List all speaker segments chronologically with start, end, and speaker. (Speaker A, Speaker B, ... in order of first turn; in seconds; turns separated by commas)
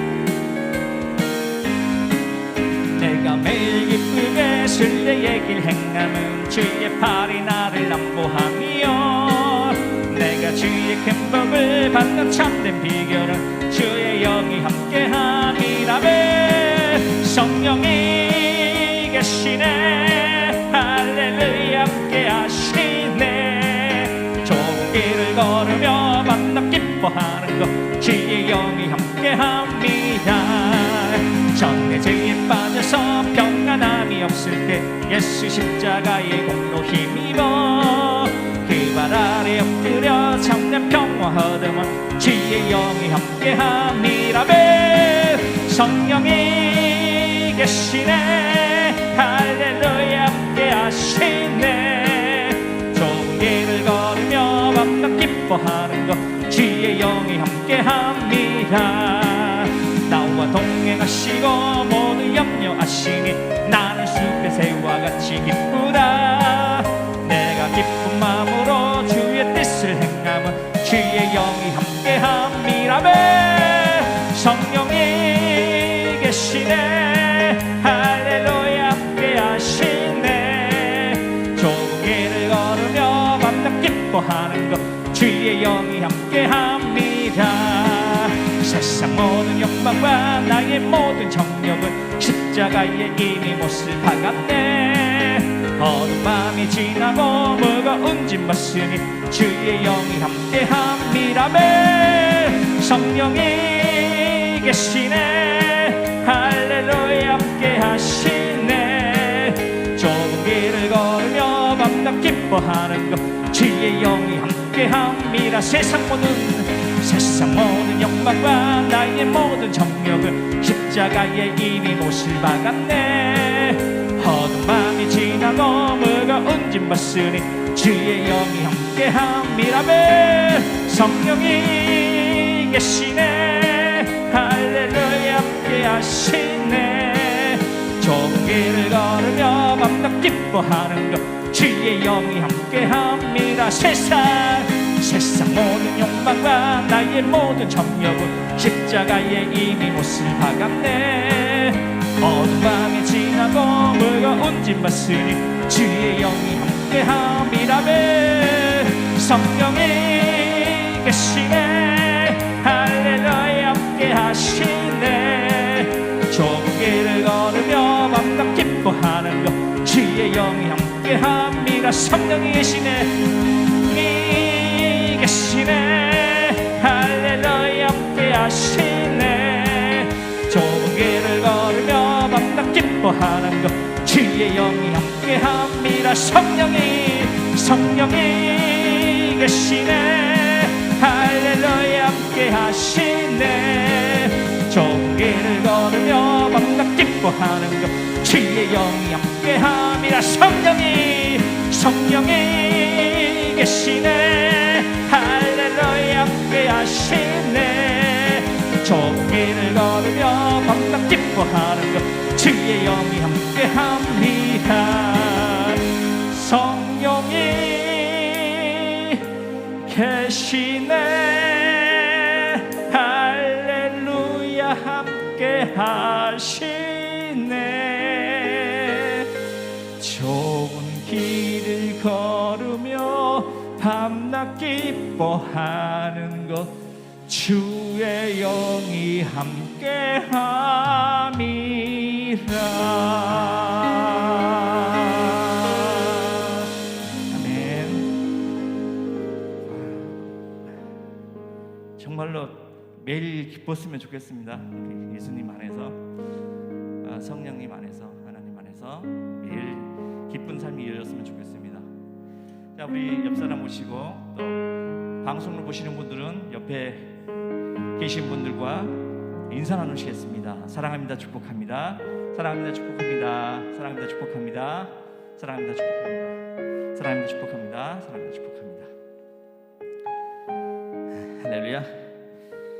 Speaker A: 2.9-219.2, Speaker A: 219.8-229.3, Speaker A: 230.0-246.7, Speaker A: 247.3-248.2, Speaker A: 249.7-250.3, Speaker A: 252.0-256.0, Speaker A: 257.0-261.9, Speaker A: 262.8-264.6, Speaker A: 265.2-267.2, Speaker A: 268.0-268.9, Speaker A: 269.5-278.9, Speaker A: 281.1-282.0